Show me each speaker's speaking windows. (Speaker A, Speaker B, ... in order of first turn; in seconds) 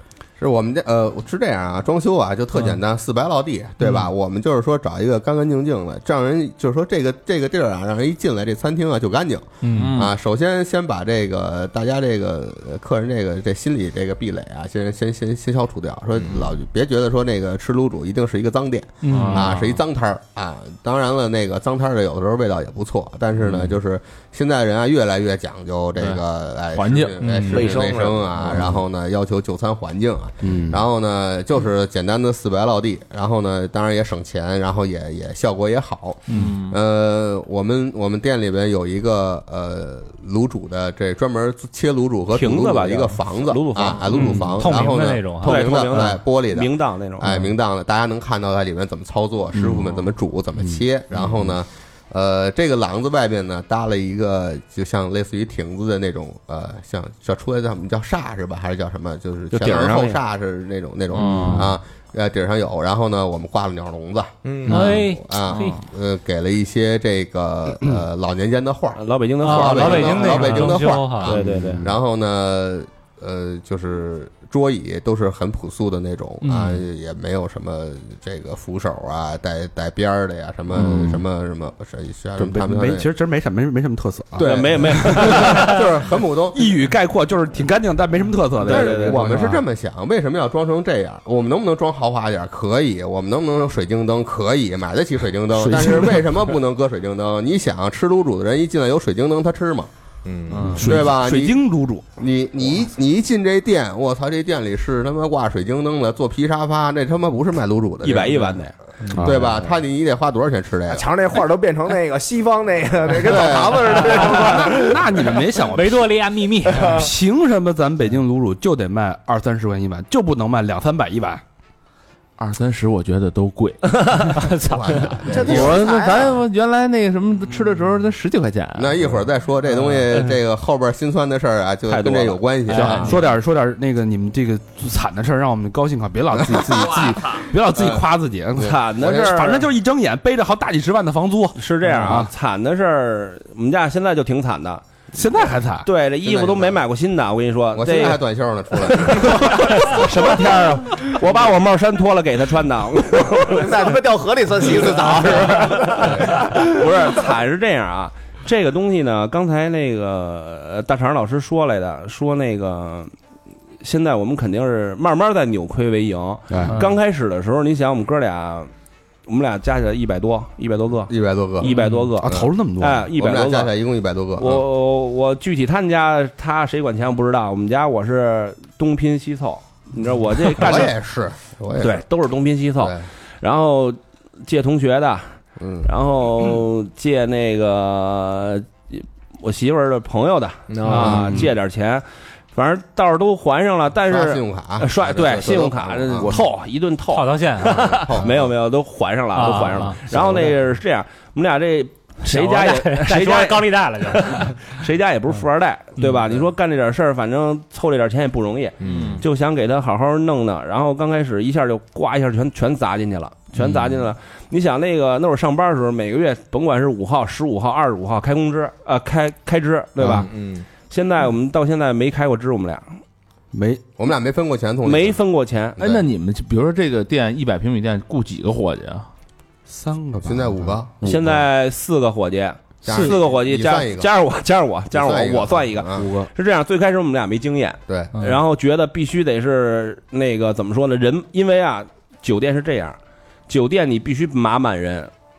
Speaker A: 0.4-83.1, 84.4-86.7, 88.6-99.9, 100.7-108.5, 109.1-111.0, 113.1-114.2, 124.6-125.8, 128.7-133.2, 137.7-138.0, 138.6-139.3, 146.2-146.8, 147.7-149.4, 171.1-171.7, 173.1-174.6, 180.4-182.0, 182.8-183.1, 185.6-185.9, 190.9-191.4, 194.1-196.3, 197.7-198.5, 224.0-225.2, 225.8-226.0, 230.2-231.3, 232.8-234.1, 234.9-236.1, 237.9-238.2
Speaker B: 9.6-9.9, 19.0-19.5, 27.2-27.5, 44.5-45.8, 64.7-65.8, 69.4-71.3, 76.4-76.8, 115.7-117.0, 124.3-125.2, 197.1-197.9, 199.3-200.0, 202.2-204.6
Speaker C: 9.7-10.1, 19.1-19.8, 26.7-27.7, 36.3-36.8, 61.1-61.7, 100.6-101.0, 122.4-124.5, 125.4-129.1, 208.8-209.2, 225.8-229.1
Speaker D: 27.5-28.5, 64.4-64.8, 100.2-100.7, 110.9-115.0, 116.8-117.0, 125.3-126.3, 153.4-156.6, 190.7-191.4, 200.2-200.5, 208.8-209.2, 220.0-220.6
Speaker E: 30.4-30.8, 44.2-44.4, 61.1-61.7, 71.4-71.9, 80.7-81.2, 82.3-85.8, 86.5-89.6, 95.5-96.5, 100.6-102.0, 109.1-109.6, 113.9-116.2, 116.8-121.4, 132.7-142.3, 145.1-145.9, 149.9-150.8, 166.5-166.8, 171.7-173.1, 191.0-191.4, 223.5-223.8, 229.7-230.8, 236.0-236.3
Speaker F: 42.3-44.5, 45.4-47.2, 59.5-60.2, 69.0-71.8, 84.4-85.8, 88.6-89.3, 108.0-108.7, 131.9-133.1, 138.6-139.6, 141.6-144.8, 145.8-148.2, 148.8-153.9, 154.6-163.1, 163.8-168.7, 169.3-173.7, 174.4-180.9, 181.8-220.3, 220.9-222.9, 224.8-225.8, 231.0-243.0, 243.5-245.1